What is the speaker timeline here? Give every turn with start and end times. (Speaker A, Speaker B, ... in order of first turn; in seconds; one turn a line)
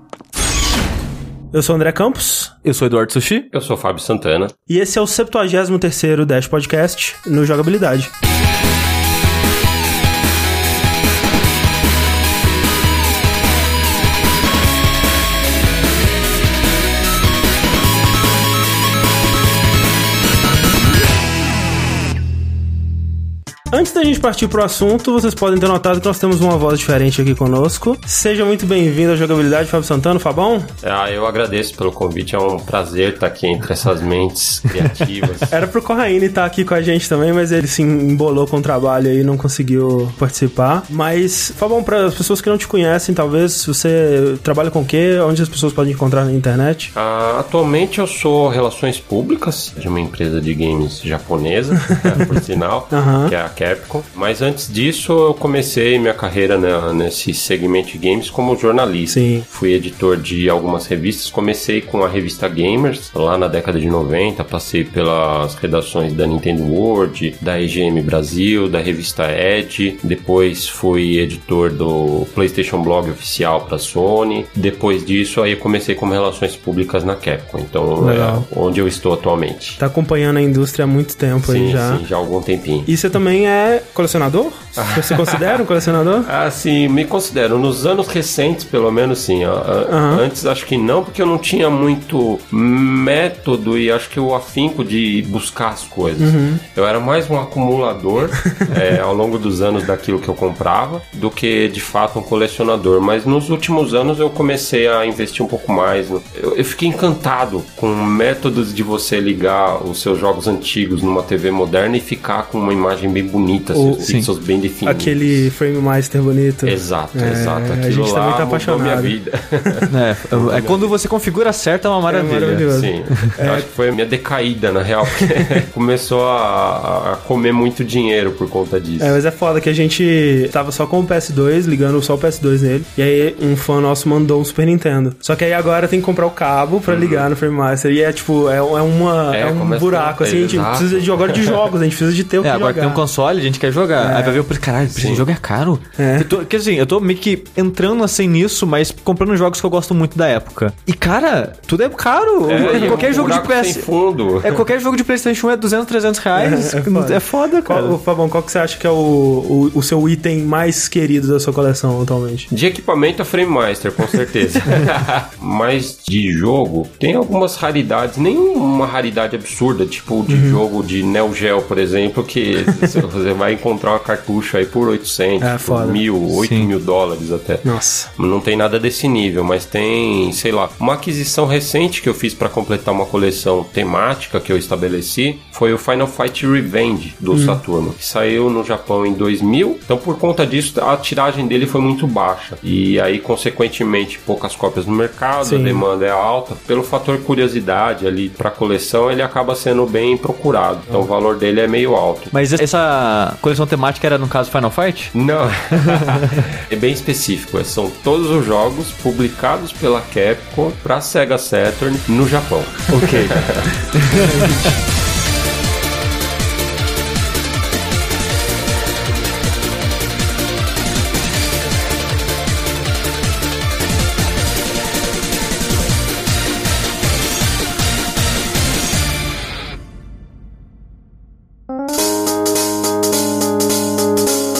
Speaker A: 1.5-2.5
Speaker B: 2.6-3.5
Speaker C: 3.5-4.5
Speaker A: 4.7-8.1
Speaker A: 23.7-30.7
Speaker C: 30.8-35.6
Speaker A: 35.5-46.9
Speaker C: 47.0-79.8
Speaker A: 52.9-53.3
Speaker A: 59.1-59.5
Speaker A: 78.0-78.5
Speaker A: 79.8-82.0
Speaker C: 81.4-82.9
Speaker A: 82.9-86.3
Speaker C: 84.8-85.6
Speaker C: 86.2-115.5
Speaker A: 89.9-90.2
Speaker A: 96.2-96.6
Speaker A: 98.4-98.8
Speaker A: 113.7-114.1
Speaker A: 114.8-119.2
Speaker C: 116.7-121.0
Speaker B: 119.9-122.7
Speaker A: 122.1-123.7
Speaker C: 122.7-129.2
Speaker A: 125.1-125.6
Speaker A: 129.0-143.0
Speaker C: 136.9-137.3
Speaker C: 139.3-141.7
Speaker B: 142.4-153.9
Speaker A: 144.0-144.4
Speaker C: 144.9-145.2
Speaker A: 146.0-146.3
Speaker C: 152.5-154.6
Speaker A: 152.6-153.4
Speaker B: 154.4-158.0
Speaker A: 156.3-162.5
Speaker C: 162.5-202.3
Speaker A: 170.3-170.6
Speaker A: 175.4-176.0
Speaker B: 176.3-176.7
Speaker A: 177.6-178.1
Speaker A: 187.3-187.6
Speaker A: 195.4-195.8
Speaker B: 202.3-205.1
Speaker C: 205.1-214.4
Speaker B: 205.8-206.3
Speaker B: 212.9-214.7